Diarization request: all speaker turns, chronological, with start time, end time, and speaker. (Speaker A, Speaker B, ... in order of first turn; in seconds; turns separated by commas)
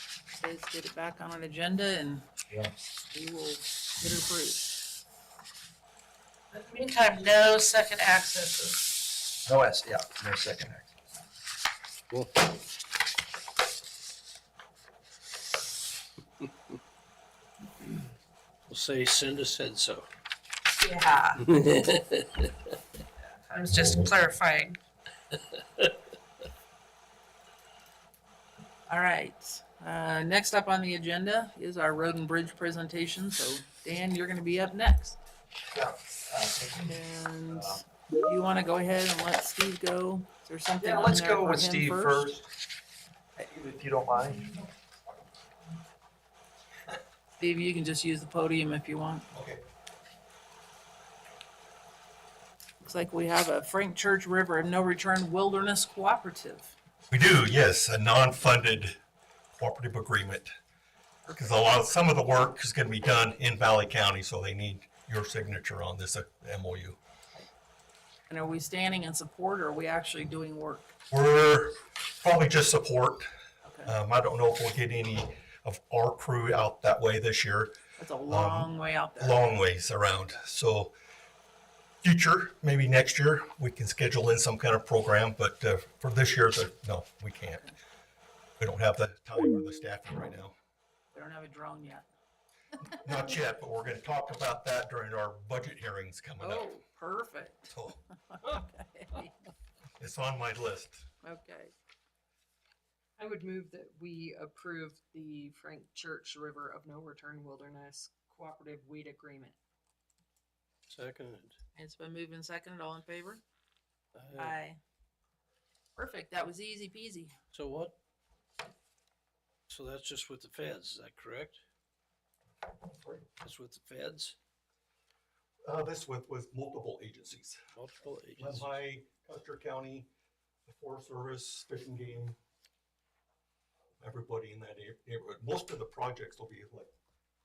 Speaker A: 0.4-2.3, Speaker A: 3.1-4.8, Speaker B: 6.5-9.0, Speaker C: 9.5-11.2, Speaker D: 18.7-20.1, Speaker B: 20.7-21.5, Speaker D: 21.5-22.0, Speaker B: 23.5-24.8, Speaker A: 28.9-35.2, Speaker C: 36.3-36.9, Speaker A: 36.8-42.3, Speaker C: 40.8-42.5, Speaker C: 43.4-44.6, Speaker A: 47.4-49.3, Speaker E: 49.3-49.6, Speaker A: 52.8-56.7, Speaker E: 57.1-59.0, Speaker E: 59.5-60.5, Speaker A: 61.3-61.7, Speaker E: 61.4-67.0, Speaker A: 68.3-71.0, Speaker E: 71.1-73.3, Speaker A: 73.7-74.0, Speaker E: 73.8-77.8, Speaker A: 78.0-79.6, Speaker E: 78.3-81.0, Speaker E: 82.0-87.7, Speaker E: 88.6-90.5, Speaker A: 91.1-92.1, Speaker E: 92.9-96.8, Speaker A: 96.4-99.4, Speaker E: 97.7-98.0, Speaker E: 100.0-101.1, Speaker A: 101.2-101.7, Speaker F: 103.2-109.6, Speaker D: 110.9-111.6, Speaker A: 111.8-113.4, Speaker D: 114.2-114.5, Speaker A: 114.3-114.8, Speaker A: 116.0-117.4, Speaker D: 117.5-118.0, Speaker D: 119.7-121.6, Speaker E: 122.9-123.2, Speaker D: 123.4-124.4, Speaker E: 125.7-127.6, Speaker D: 127.8-128.5, Speaker E: 128.4-130.1, Speaker E: 130.7-132.4, Speaker E: 134.0-136.9